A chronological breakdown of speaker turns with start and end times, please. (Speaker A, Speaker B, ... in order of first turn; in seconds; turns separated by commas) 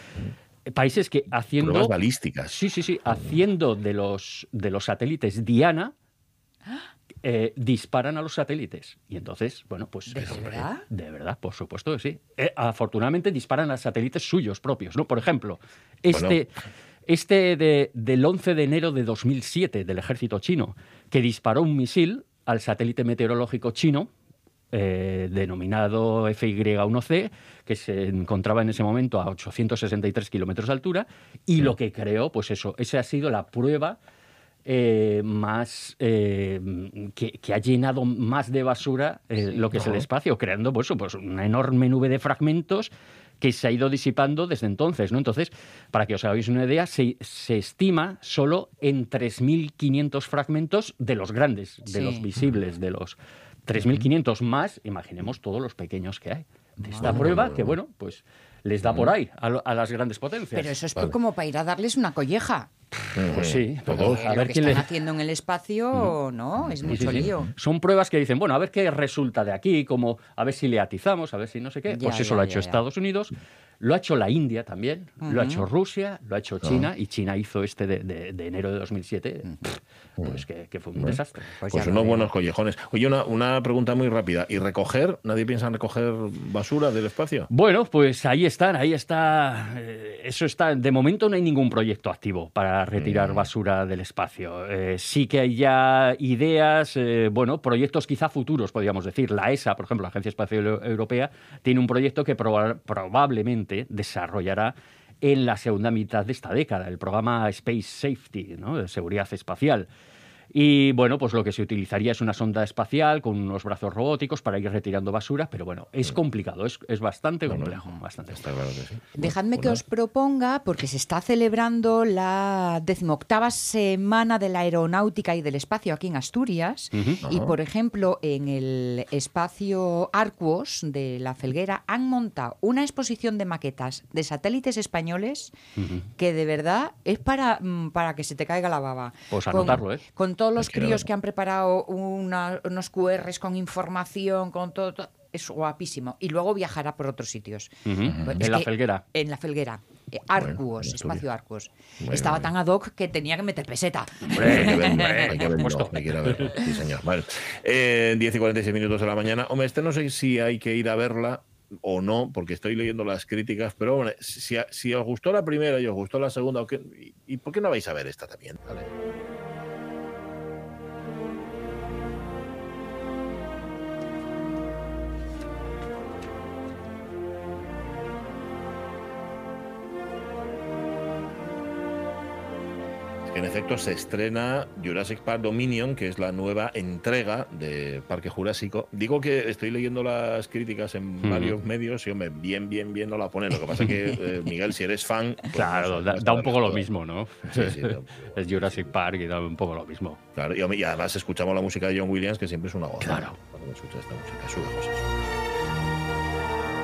Speaker A: 0.7-1.9, Speaker B: 1.6-2.5, Speaker A: 2.5-5.9, Speaker A: 7.2-16.5, Speaker C: 10.1-10.8, Speaker B: 16.1-16.4, Speaker A: 17.1-24.1, Speaker A: 24.7-34.0, Speaker A: 34.6-60.7, Speaker B: 39.8-40.0, Speaker C: 51.9-52.3, Speaker B: 53.8-54.0, Speaker C: 56.9-57.3, Speaker B: 57.0-57.7, Speaker C: 60.5-62.8, Speaker B: 63.1-64.3, Speaker A: 63.3-64.9, Speaker C: 63.9-67.5, Speaker B: 66.8-67.5, Speaker A: 66.9-81.5, Speaker C: 71.9-72.8, Speaker C: 75.2-75.7, Speaker C: 81.6-82.3, Speaker B: 81.7-87.5, Speaker A: 87.5-109.9, Speaker B: 93.0-93.5, Speaker A: 110.5-118.4, Speaker B: 117.5-119.8, Speaker C: 119.2-135.5, Speaker A: 126.9-127.2, Speaker B: 127.2-127.5, Speaker A: 135.8-136.1, Speaker C: 136.2-155.5, Speaker A: 139.3-140.0, Speaker B: 140.6-141.1, Speaker A: 147.8-149.0, Speaker B: 148.1-148.4, Speaker B: 150.3-151.2, Speaker B: 152.0-152.5, Speaker A: 154.3-156.6, Speaker B: 154.3-168.9, Speaker B: 183.2-196.9, Speaker A: 191.2-191.6, Speaker A: 195.5-200.2, Speaker B: 197.5-198.9, Speaker B: 200.3-205.1, Speaker A: 203.0-203.3